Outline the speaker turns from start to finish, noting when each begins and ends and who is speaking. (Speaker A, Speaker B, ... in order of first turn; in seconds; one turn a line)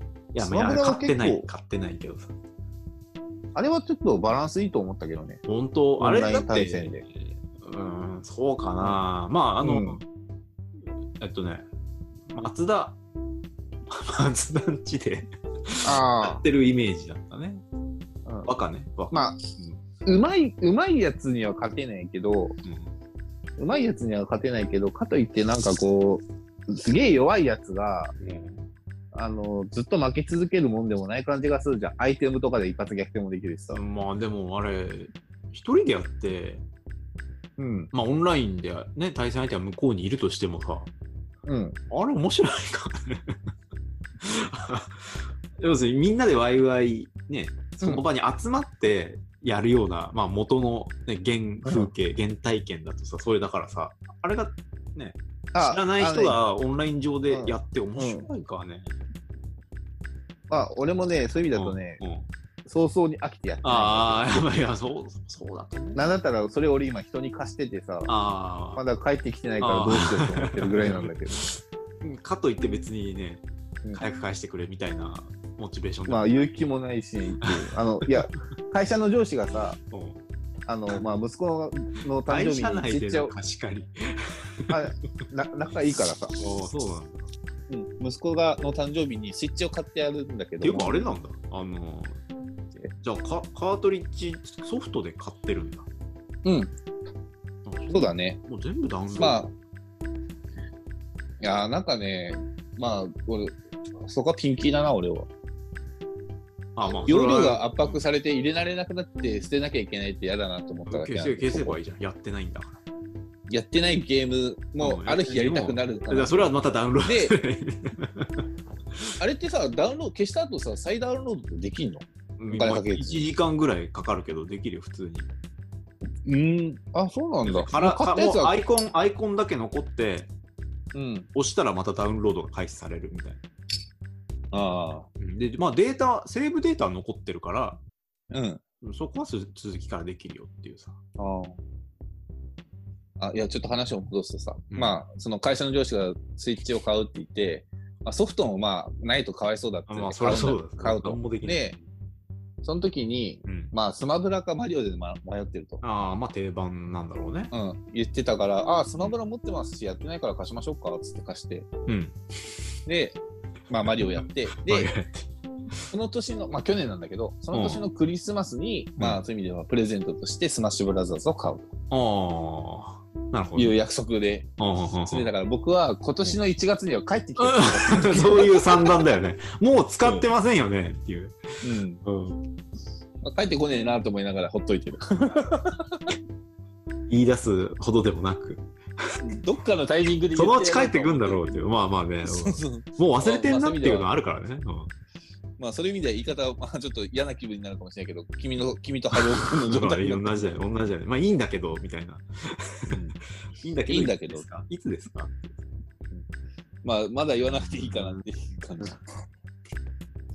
Speaker A: 0.3-2.3
Speaker B: 0.4-1.5
Speaker B: 3.5-5.4
Speaker A: 5.5-10.0
Speaker B: 6.0-7.0
Speaker B: 9.6-10.0
Speaker A: 11.2-11.7
Speaker A: 12.3-13.0
Speaker A: 13.9-17.6
Speaker B: 15.8-16.4
Speaker A: 18.4-19.8
Speaker B: 19.1-19.4
Speaker B: 20.1-22.6
Speaker A: 22.6-22.9
Speaker B: 23.6-28.1
Speaker A: 28.2-28.7
Speaker B: 29.1-33.8
Speaker A: 33.7-36.6
Speaker B: 37.6-37.9
Speaker A: 37.9-40.9
Speaker B: 41.5-41.8
Speaker A: 41.9-43.4
Speaker A: 44.2-59.0
Speaker B: 51.6-51.9
Speaker B: 55.5-56.4
Speaker B: 57.3-58.3
Speaker B: 60.5-62.0
Speaker A: 61.5-62.3
Speaker B: 62.7-64.5
Speaker A: 63.6-66.1
Speaker B: 66.0-68.1
Speaker A: 68.1-68.8
Speaker B: 68.8-71.4
Speaker A: 69.6-76.5
Speaker B: 76.1-79.8
Speaker A: 77.4-78.4
Speaker A: 79.9-80.2
Speaker B: 80.7-83.3
Speaker A: 82.3-84.8
Speaker B: 84.7-86.4
Speaker A: 86.4-87.4
Speaker B: 87.7-91.1
Speaker A: 90.6-92.2
Speaker A: 92.9-95.9
Speaker B: 96.4-96.7
Speaker A: 97.7-99.5
Speaker B: 97.9-98.4
Speaker B: 99.2-99.5
Speaker B: 101.4-105.3
Speaker A: 106.8-108.0
Speaker B: 106.9-111.8
Speaker A: 110.9-112.8
Speaker B: 113.5-116.5
Speaker A: 114.8-119.2
Speaker B: 117.0-117.3
Speaker B: 119.2-123.2
Speaker A: 122.4-125.3
Speaker B: 126.2-128.6
Speaker A: 127.5-130.3
Speaker B: 130.9-131.3
Speaker A: 131.3-133.4
Speaker B: 134.5-135.1
Speaker A: 135.2-137.8
Speaker B: 138.3-138.6
Speaker A: 138.8-141.0
Speaker B: 141.2-141.6
Speaker B: 143.2-151.8
Speaker A: 144.7-145.0
Speaker A: 149.9-151.8
Speaker B: 152.6-155.8
Speaker A: 153.4-153.7
Speaker A: 155.8-157.5
Speaker B: 157.5-161.7
Speaker A: 161.9-162.2
Speaker B: 162.9-163.2
Speaker B: 163.7-164.9
Speaker A: 163.9-165.9
Speaker B: 165.9-171.7
Speaker A: 167.5-167.8
Speaker A: 171.9-173.8
Speaker B: 173.6-174.5
Speaker A: 174.6-175.3
Speaker B: 175.0-179.0
Speaker A: 177.4-181.4
Speaker B: 181.6-182.0
Speaker A: 182.0-182.5
Speaker B: 183.2-186.2
Speaker A: 187.1-189.2
Speaker B: 189.2-191.6
Speaker A: 190.3-194.9
Speaker B: 192.2-194.1
Speaker B: 195.6-200.4
Speaker A: 199.1-205.7
Speaker B: 203.9-204.4
Speaker B: 206.8-209.0
Speaker A: 207.4-208.2